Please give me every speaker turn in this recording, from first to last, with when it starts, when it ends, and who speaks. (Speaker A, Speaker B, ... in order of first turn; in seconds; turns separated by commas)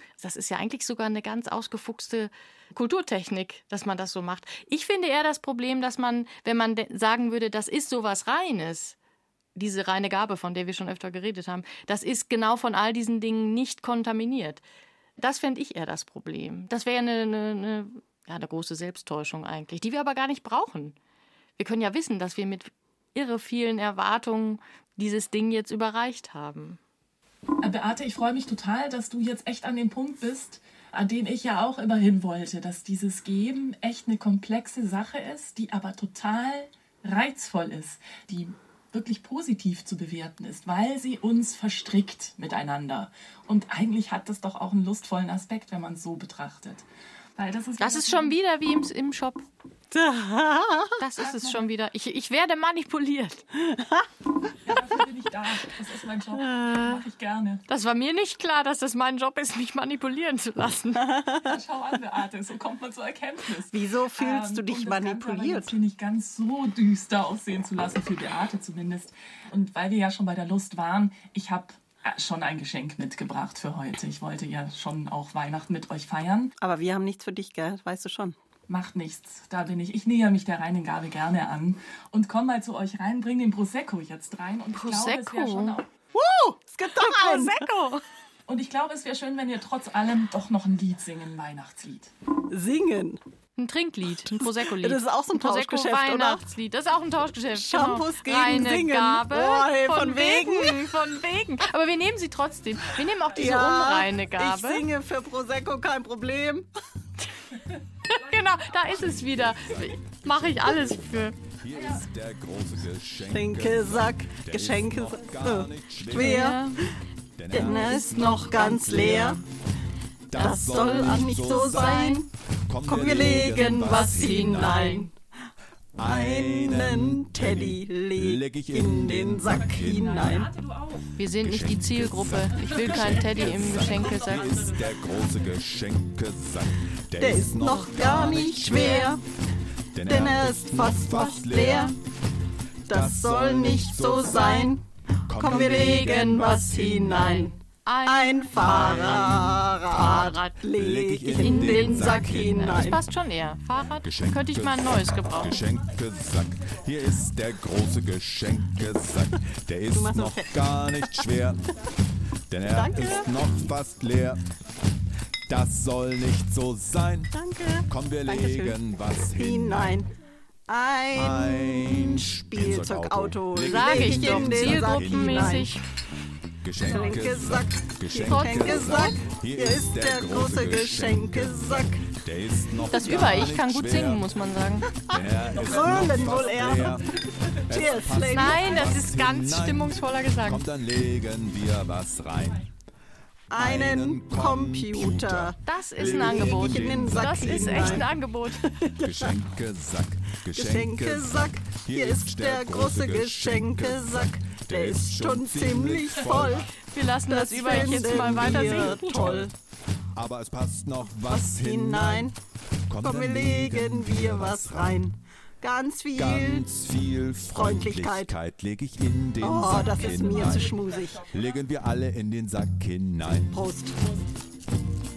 Speaker A: 0.2-8.9, Speaker A: 9.6-14.6, Speaker A: 15.2-20.9, Speaker A: 21.6-26.8, Speaker B: 27.6-46.8, Speaker B: 47.4-48.4, Speaker A: 47.8-49.4, Speaker C: 49.9-51.0, Speaker A: 51.0-53.5, Speaker B: 51.2-51.6, Speaker C: 53.6-54.1, Speaker B: 54.6-57.6, Speaker C: 56.4-57.0, Speaker A: 57.7-61.1, Speaker C: 60.9-61.5, Speaker B: 61.4-76.5, Speaker C: 63.7-65.7, Speaker C: 76.6-78.4, Speaker B: 78.7-85.9, Speaker A: 84.7-85.8, Speaker C: 86.1-87.7, Speaker A: 86.9-88.0, Speaker B: 88.5-92.1, Speaker C: 92.5-93.2, Speaker A: 93.6-104.8, Speaker C: 94.3-96.4, Speaker C: 97.5-101.0, Speaker C: 103.3-106.7, Speaker A: 108.1-111.4, Speaker D: 108.6-116.6, Speaker C: 113.3-116.8, Speaker A: 116.1-116.8, Speaker D: 117.3-119.4, Speaker C: 117.5-119.4, Speaker A: 117.5-119.3, Speaker D: 120.3-125.0, Speaker C: 120.3-122.3, Speaker A: 120.4-122.2, Speaker C: 122.8-125.1, Speaker A: 123.2-125.1, Speaker D: 126.0-130.5, Speaker C: 126.0-130.5, Speaker B: 129.9-130.2, Speaker A: 131.2-134.6, Speaker D: 131.2-139.1, Speaker B: 133.3-135.3, Speaker C: 137.2-139.2, Speaker D: 139.9-141.9, Speaker C: 140.1-141.9, Speaker D: 142.9-147.4, Speaker C: 142.9-147.5, Speaker A: 145.4-150.7, Speaker C: 148.0-153.0, Speaker D: 148.5-149.6, Speaker D: 150.2-153.0, Speaker A: 151.3-155.6, Speaker D: 154.0-161.6, Speaker C: 159.9-160.5, Speaker D: 162.5-164.4, Speaker C: 162.7-163.3, Speaker D: 165.5-167.3, Speaker C: 167.3-170.1, Speaker D: 167.9-170.0, Speaker C: 170.7-175.7, Speaker D: 171.1-175.8, Speaker A: 173.7-175.8, Speaker D: 176.6-187.1, Speaker C: 176.8-182.1, Speaker A: 178.1-179.2, Speaker A: 182.9-185.2, Speaker C: 185.6-187.0, Speaker C: 187.7-188.9, Speaker D: 187.7-192.6, Speaker A: 188.2-190.6, Speaker C: 193.5-199.4, Speaker D: 193.5-198.3, Speaker A: 195.7-198.7, Speaker D: 199.0-206.7, Speaker C: 200.5-206.7, Speaker A: 206.9-209.4, Speaker C: 207.3-209.5, Speaker D: 207.7-209.5, Speaker D: 210.2-212.3, Speaker C: 211.3-212.3, Speaker D: 212.9-215.1, Speaker C: 213.0-216.6, Speaker D: 216.1-223.6, Speaker C: 217.5-218.3, Speaker C: 219.4-221.2, Speaker C: 223.5-224.0